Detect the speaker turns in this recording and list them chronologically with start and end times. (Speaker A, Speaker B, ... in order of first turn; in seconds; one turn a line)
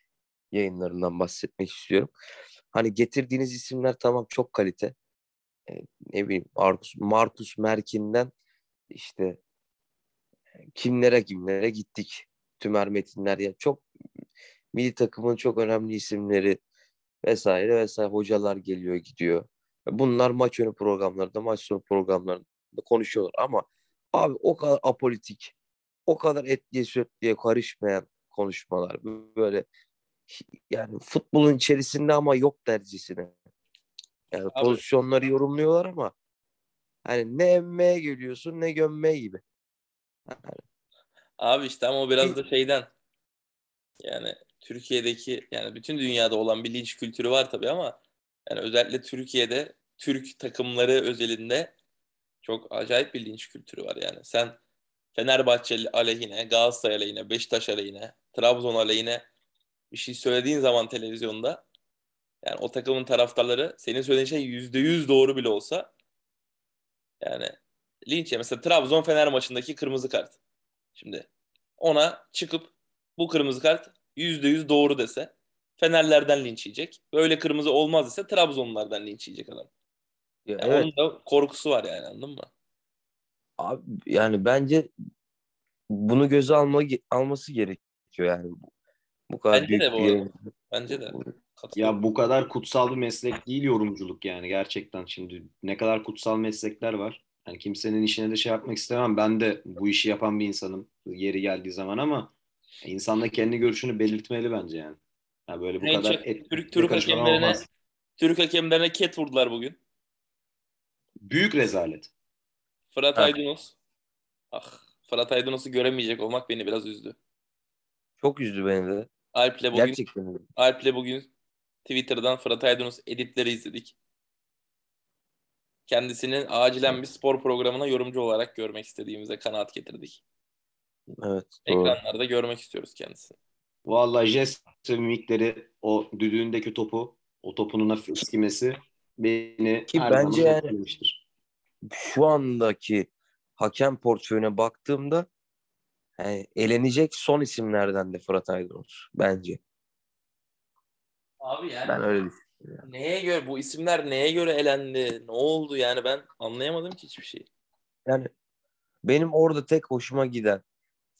Speaker A: 0.5-2.1
Speaker A: 2.7-4.9
Speaker A: 5.7-8.3
Speaker A: 8.9-9.4
Speaker A: 10.7-13.8
Speaker A: 14.7-16.6
Speaker A: 17.2-25.5
Speaker A: 26.1-29.6
Speaker A: 30.3-33.3
Speaker A: 34.3-36.1
Speaker B: 34.5-34.8
Speaker A: 37.0-39.4
Speaker A: 40.3-40.6
Speaker B: 41.4-42.9
Speaker B: 44.0-51.7
Speaker B: 52.4-54.6
Speaker B: 55.1-59.2
Speaker B: 59.9-61.6
Speaker B: 62.4-65.9
Speaker B: 67.2-67.5
Speaker B: 68.0-70.4
Speaker B: 70.9-71.3
Speaker B: 71.8-79.7
Speaker A: 80.5-80.9
Speaker B: 80.6-82.5
Speaker A: 83.6-84.9
Speaker A: 85.9-88.7
Speaker A: 89.3-90.3
Speaker B: 89.5-92.0
Speaker A: 90.9-91.2
Speaker C: 91.8-107.6
Speaker B: 105.8-107.6
Speaker B: 108.2-109.8
Speaker C: 111.2-112.1
Speaker B: 112.9-113.7
Speaker B: 114.5-117.2
Speaker A: 118.2-119.1
Speaker B: 119.3-120.0
Speaker A: 119.7-120.4
Speaker B: 120.5-121.3
Speaker B: 121.8-124.0
Speaker B: 125.9-130.2
Speaker A: 131.2-132.0
Speaker B: 131.7-133.3
Speaker C: 133.8-141.2
Speaker A: 139.9-140.7
Speaker A: 141.9-145.3
Speaker A: 146.2-149.6
Speaker B: 151.4-152.0
Speaker A: 151.8-152.8
Speaker B: 152.8-157.4
Speaker A: 159.0-160.6